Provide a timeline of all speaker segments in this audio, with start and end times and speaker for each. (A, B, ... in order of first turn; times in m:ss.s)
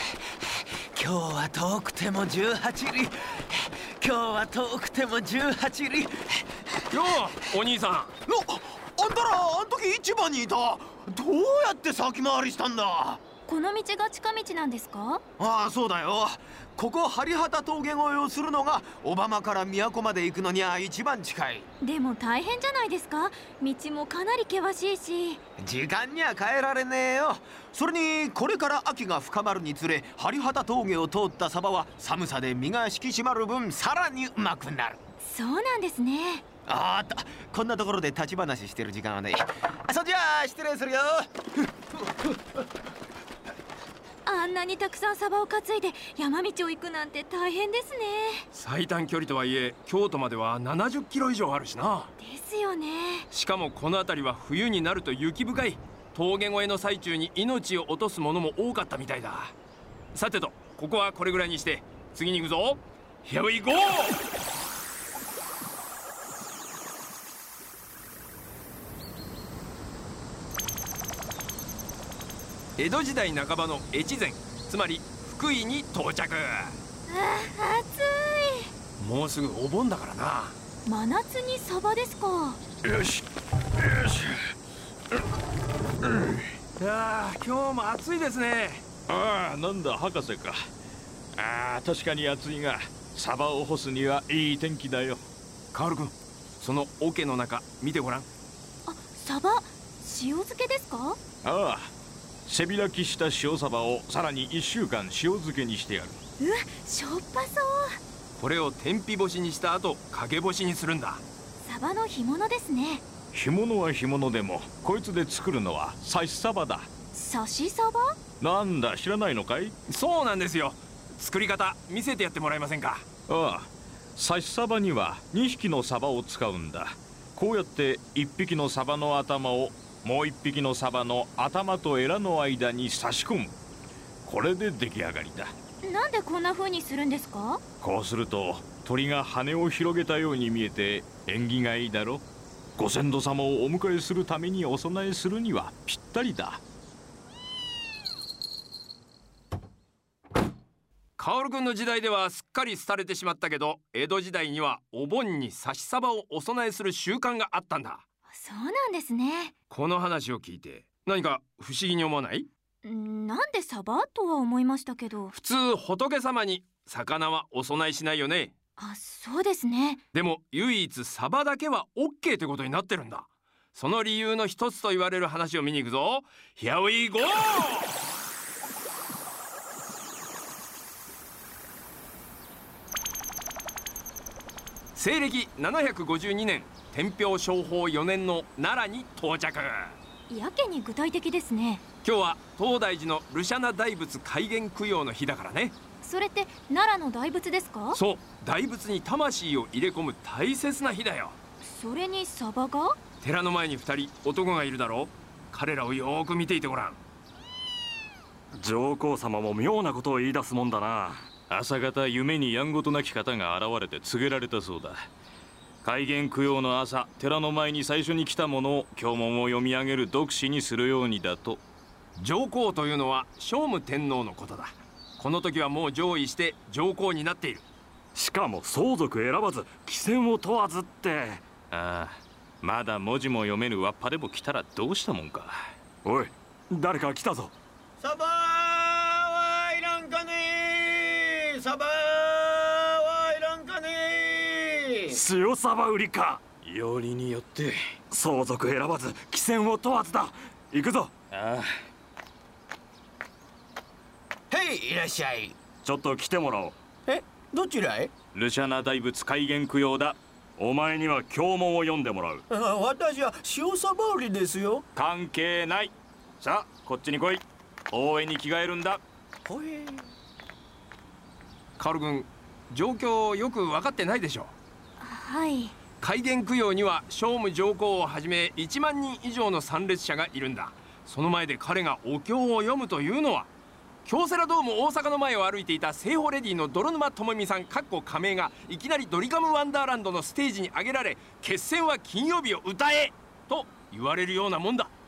0:00.9-0:06.7 A
0:06.9-0:08.1 B
0:08.3-0:13.2 A
0:13.5-0:15.2 C
0:15.4-0:21.7 A
0:21.8-0:25.4 C
0:25.6-0:35.0 A
0:35.2-0:36.4 C
0:36.7-0:41.3 A
0:44.2-0:48.5 C
0:48.5-0:52.1 B
0:52.2-0:53.3 C
0:53.3-0:59.5 B
1:00.1-1:04.3 B
1:12.8-1:16.8 B
1:17.1-1:18.7 C
1:19.0-1:20.6 B
1:20.8-1:22.6 C
1:22.8-1:23.2 D
1:23.8-1:24.4 D
1:26.8-1:28.8 B
1:29.1-1:30.6 D
1:31.4-1:35.2 D
1:35.7-1:38.3 B
1:38.9-1:41.2 C
1:41.4-1:41.9 D
1:42.5-1:46.2 D
1:46.4-1:48.0 C
1:48.4-1:51.2 B
1:51.6-1:53.0 C
1:53.3-1:56.9 D
1:57.1-1:58.1 C
1:58.4-1:59.8 D
1:59.9-2:03.0 B
2:03.3-2:13.6 D
2:14.2-2:15.5 D
2:15.8-2:17.6 C
2:17.8-2:22.2 D
2:22.8-2:26.6 D
2:31.2-2:38.0 B
2:38.3-2:39.5 C
2:39.7-2:42.5 B
2:42.8-2:45.3 C
2:45.4-2:48.5 B
2:48.8-2:50.0 C
2:50.1-2:58.0 B
3:05.0-3:10.0 B
3:10.3-3:11.8 C
3:12.0-3:15.8 B
3:16.0-3:18.0 C
3:17.9-3:21.4 B
3:21.6-3:23.0 C
3:23.2-3:27.0 B
3:28.6-3:31.2 E
3:31.5-3:35.1 D
3:35.8-3:41.6 D
3:42.2-3:47.7 B
3:48.2-3:51.4 E
3:51.7-3:55.6 D
3:56.0-3:57.5 E
3:58.0-4:05.2 A
4:05.1-4:06.4 E
4:06.6-4:07.8 D
4:08.1-4:11.1 E
4:11.3-4:11.7 D
4:14.5-4:15.6 A
4:15.8-4:16.8 E
4:17.1-4:18.1 A
4:18.3-4:20.2 D
4:20.6-4:22.4 E
4:22.5-4:24.8 A
4:25.0-4:29.0 D
4:29.5-4:30.1 A
4:31.8-4:34.6 B
4:35.0-4:35.8 C
4:36.0-4:43.5 B
4:44.0-4:54.9 B